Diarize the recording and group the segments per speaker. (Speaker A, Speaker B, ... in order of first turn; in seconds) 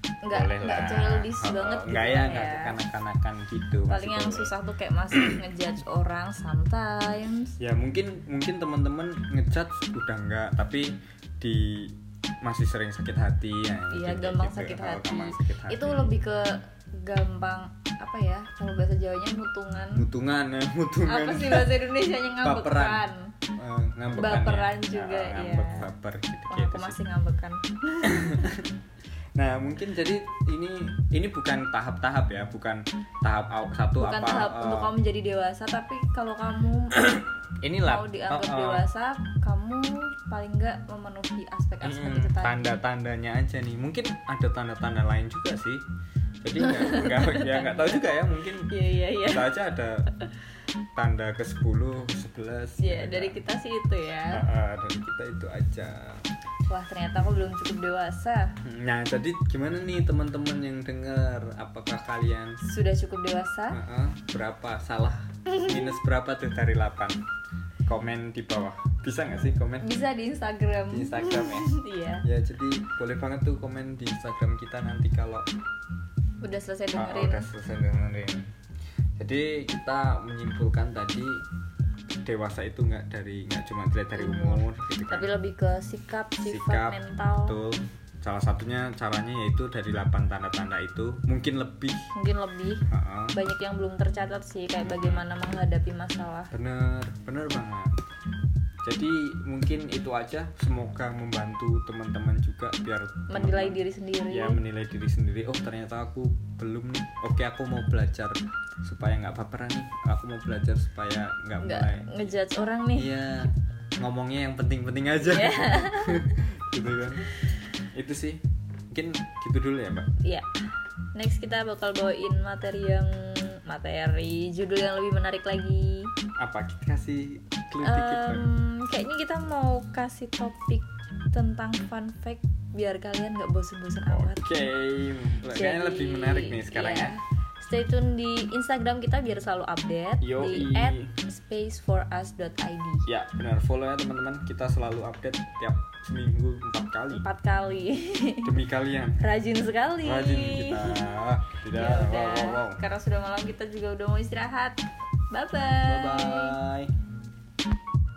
Speaker A: 0.2-2.8, 3.8-7.5, 13.9-20.1, 21.0-23.3, 24.1-25.9, 26.5-28.6, 34.0-37.3, 37.8-42.8, 46.6-49.7, 52.8-54.5, 56.7-58.5, 62.6-63.8, 65.5-66.0, 69.8-72.2, 76.4-77.5, 84.1-87.6, 92.1-96.5, 103.3-104.6, 111.6-113.2, 115.2-116.3, 121.1-126.1, 127.8-134.5, 135.4-143.0, 147.1-148.7, 149.2-156.6
Speaker B: 0.3-4.5, 7.6-16.1, 19.9-21.8, 22.4-26.9, 28.0-28.6, 29.4-34.9, 37.6-38.8, 41.8-45.8, 46.4-50.0, 51.0-53.4, 54.3-56.2, 58.6-62.5, 63.7-67.2, 67.9-69.9, 70.9-71.7, 72.2-75.4, 76.9-78.4, 79.2-81.4, 82.2-85.2, 86.4-92.0, 92.9-93.4, 94.8-95.2, 96.5-97.9, 98.8-103.8, 104.3-112.3, 113.0-113.4, 114.0-117.2, 117.9-118.4, 118.9-120.1, 126.4-128.4, 134.1-137.1, 140.2-141.1, 143.1-147.2, 148.4-149.2, 150.0-152.8, 155.8-156.8